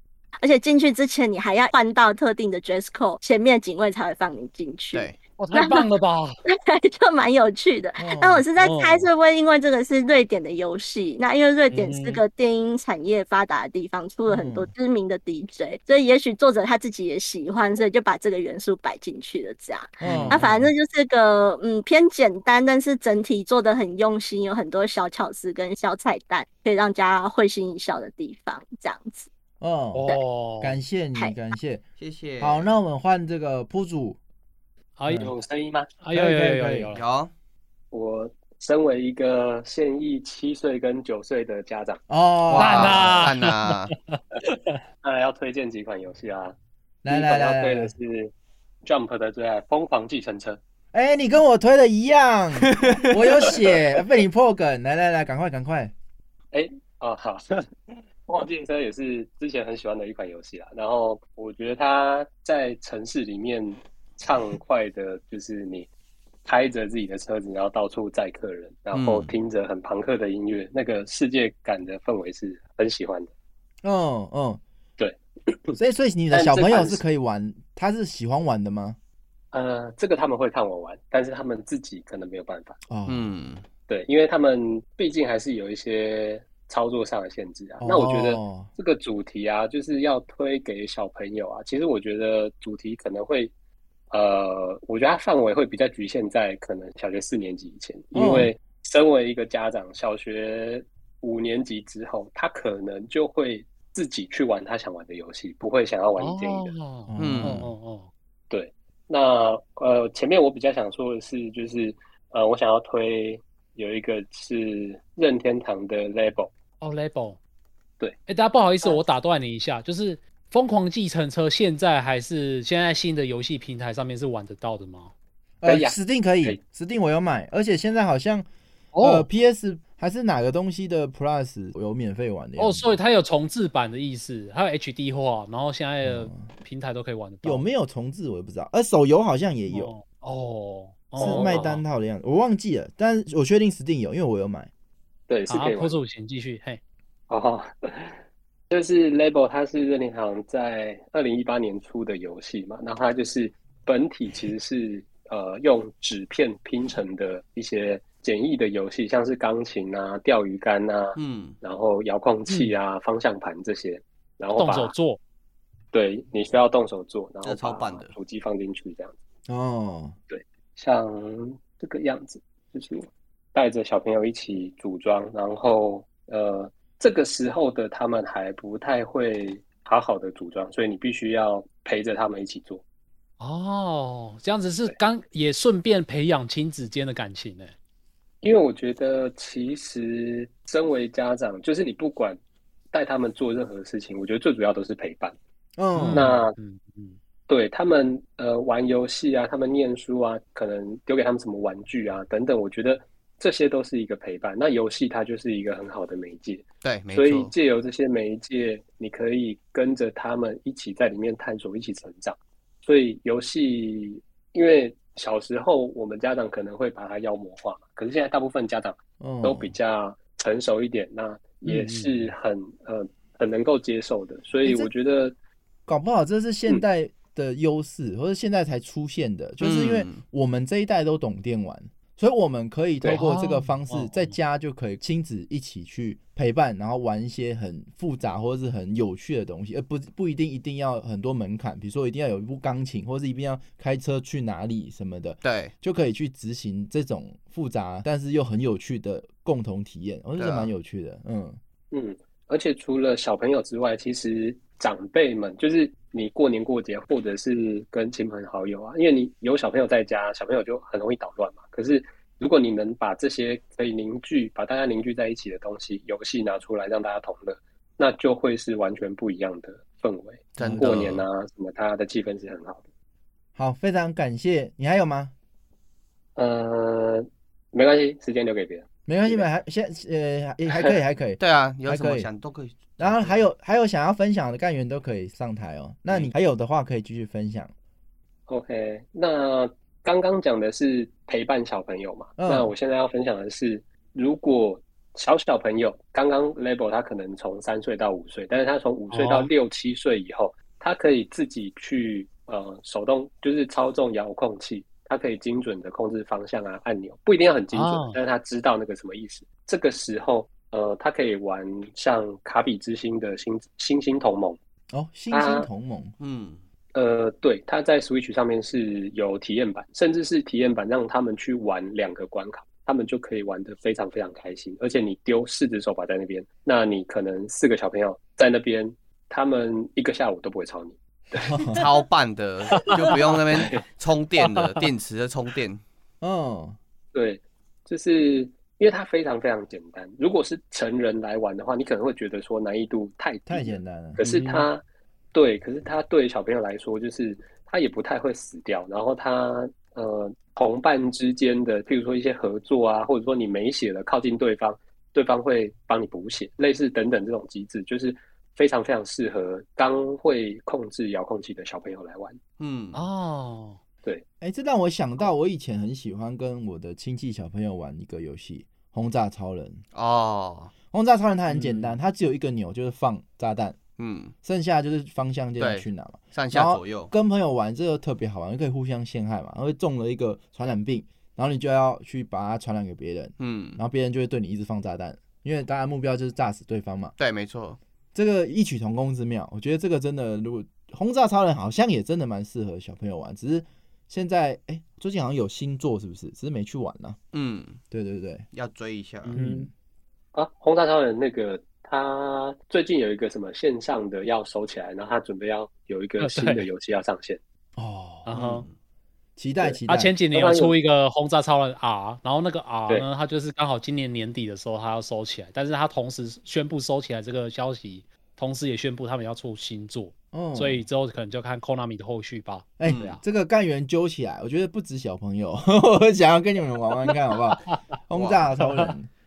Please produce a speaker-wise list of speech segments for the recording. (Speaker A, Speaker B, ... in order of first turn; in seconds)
Speaker A: 0.4-5.9, 6.5-29.3
Speaker B: 5.4-6.4, 8.6-9.1, 11.7-12.2, 20.1-20.6, 29.9-30.8, 35.0-35.3, 36.0-37.0, 42.6-44.8, 106.2-108.1, 116.8-117.4, 118.3-125.1, 128.9-129.3, 132.6-137.6, 139.7-141.8, 145.5-146.8, 162.5-162.7, 164.6-165.2, 183.4-187.7, 195.9-197.2, 221.7-222.3, 233.1-234.4, 299.1-299.5, 307.7-308.2, 332.8-333.1, 334.4-334.7, 344.2-344.7, 362.9-363.8, 399.3-399.7, 406.2-406.7, 408.3-408.7, 409.9-423.2, 428.6-428.9
Speaker C: 8.0-8.4, 14.3-14.7, 20.0-20.6, 29.6-30.1, 30.6-31.8, 32.4-34.2, 36.1-36.9, 42.1-43.2, 47.0-47.9, 50.9-55.9, 73.8-74.6, 75.8-79.0, 82.9-83.3, 87.8-88.7, 98.1-98.5, 107.1-107.7, 125.6-128.5, 129.0-133.0, 136.0-136.5, 137.4-139.9, 141.2-144.7, 169.5-170.2, 195.8-196.3, 219.2-219.7, 224.6-224.9, 225.9-251.6, 270.6-271.1, 273.6-275.3, 279.1-282.3, 283.0-287.7, 292.4-292.7, 314.9-316.1, 331.5-331.8, 336.2-336.8, 343.5-344.2, 364.4-369.8, 370.9-373.8, 374.4-387.1, 388.1-397.2, 397.9-398.5, 399.4-399.7, 407.8-408.3, 409.4-410.1, 420.3-420.8, 422.8-429.1
Speaker D: 32.0-32.7, 37.0-37.3, 42.5-43.9, 68.9-69.3, 83.1-83.7, 107.2-107.6, 161.2-161.6, 167.4-168.2, 206.8-207.5, 229.6-230.2, 245.4-245.7, 250.4-250.7, 270.6-271.2, 281.4-283.5, 316.2-316.6, 331.8-335.8, 362.6-363.0, 369.9-370.7, 374.0-374.3, 375.6-377.1, 383.4-383.8, 387.2-387.8, 397.3-397.8, 398.5-399.3, 408.3-408.7, 422.9-423.2, 428.1-428.5
Speaker E: 35.1-35.9, 37.9-42.0, 45.0-48.3, 48.8-50.6, 56.5-57.7, 58.3-65.9, 66.5-73.3, 75.0-75.8, 76.3-77.0, 79.5-82.8, 83.9-93.5, 94.1-106.7, 108.5-116.5, 125.7-126.6, 141.2-141.7, 145.3-146.0, 147.3-164.9, 165.9-169.2, 170.3-182.8, 188.4-192.4, 192.9-195.4, 196.1-196.6, 197.5-225.4, 251.9-272.8, 276.4-279.5, 288.5-314.6, 315.3-315.7, 316.9-331.6, 333.5-333.8, 337.1-362.4, 400.3-407.4, 410.3-410.7